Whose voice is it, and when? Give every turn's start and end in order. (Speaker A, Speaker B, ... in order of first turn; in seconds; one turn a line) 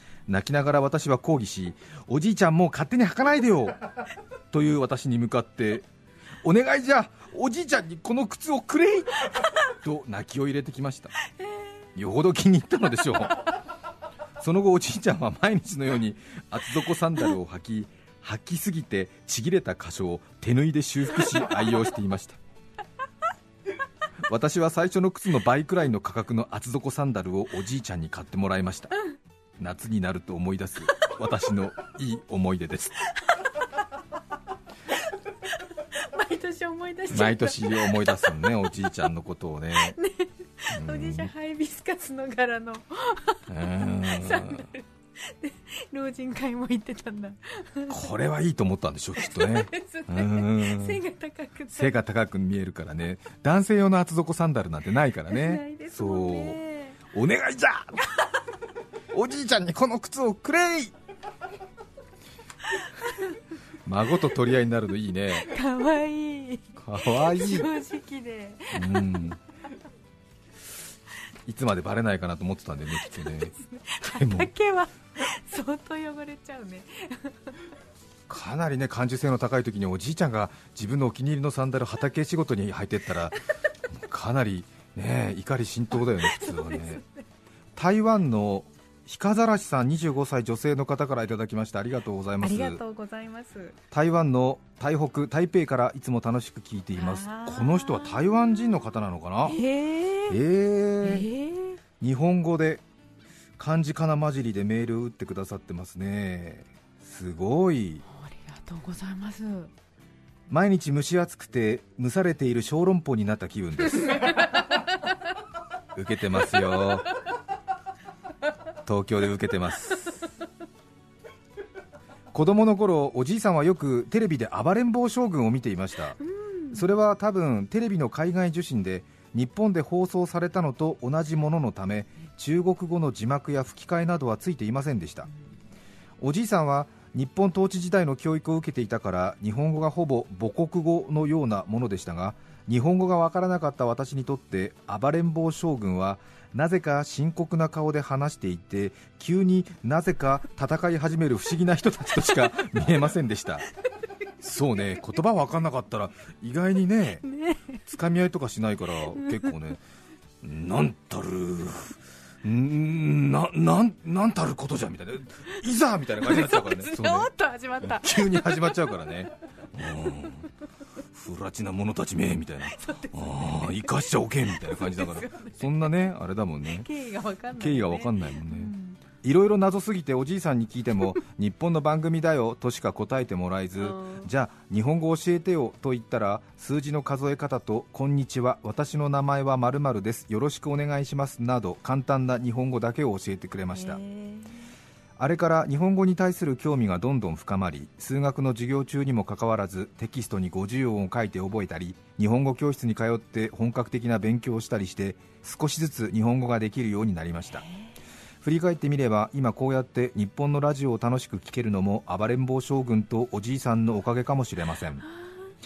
Speaker A: 0.3-3.8
Speaker A: 4.5-5.9
Speaker A: 6.4-11.1
Speaker A: 11.9-13.4
Speaker A: 14.4-22.4
Speaker A: 24.2-28.9
Speaker A: 29.6-33.0
Speaker B: 35.9-38.7
Speaker A: 37.1-40.0
Speaker B: 39.7-48.1
Speaker A: 40.7-41.3
Speaker A: 43.5-44.6
Speaker A: 47.9-51.0
Speaker B: 49.2-51.9
Speaker A: 51.7-58.0
Speaker B: 55.3-57.0
Speaker A: 59.1-60.9
Speaker A: 63.8-65.5
Speaker B: 65.4-69.2
Speaker A: 66.8-67.7
Speaker A: 68.7-69.4
Speaker A: 71.5-74.5
Speaker B: 73.0-77.5
Speaker A: 78.3-83.3
Speaker A: 83.9-87.0
Speaker B: 86.0-87.2
Speaker A: 87.8-92.8
Speaker B: 92.4-93.8
Speaker A: 93.9-99.6
Speaker B: 97.0-98.7
Speaker B: 99.4-100.4
Speaker A: 100.3-101.3
Speaker B: 101.0-101.8
Speaker A: 102.0-102.8
Speaker A: 103.6-108.0
Speaker B: 108.0-109.7
Speaker A: 110.5-114.3
Speaker A: 115.9-117.1
Speaker A: 118.8-120.2
Speaker A: 122.3-126.2
Speaker B: 126.2-126.8
Speaker A: 126.7-135.3
Speaker A: 136.2-153.7
Speaker A: 154.4-157.2
Speaker B: 157.2-157.8
Speaker A: 157.9-159.8
Speaker B: 159.1-159.5
Speaker A: 160.4-167.3
Speaker B: 166.2-168.9
Speaker A: 167.8-170.5
Speaker A: 171.1-176.9
Speaker B: 172.6-175.9
Speaker B: 176.6-179.0
Speaker A: 177.6-194.0
Speaker B: 183.8-184.3
Speaker B: 193.7-194.7
Speaker A: 195.2-207.6
Speaker B: 207.5-207.9
Speaker A: 208.4-215.0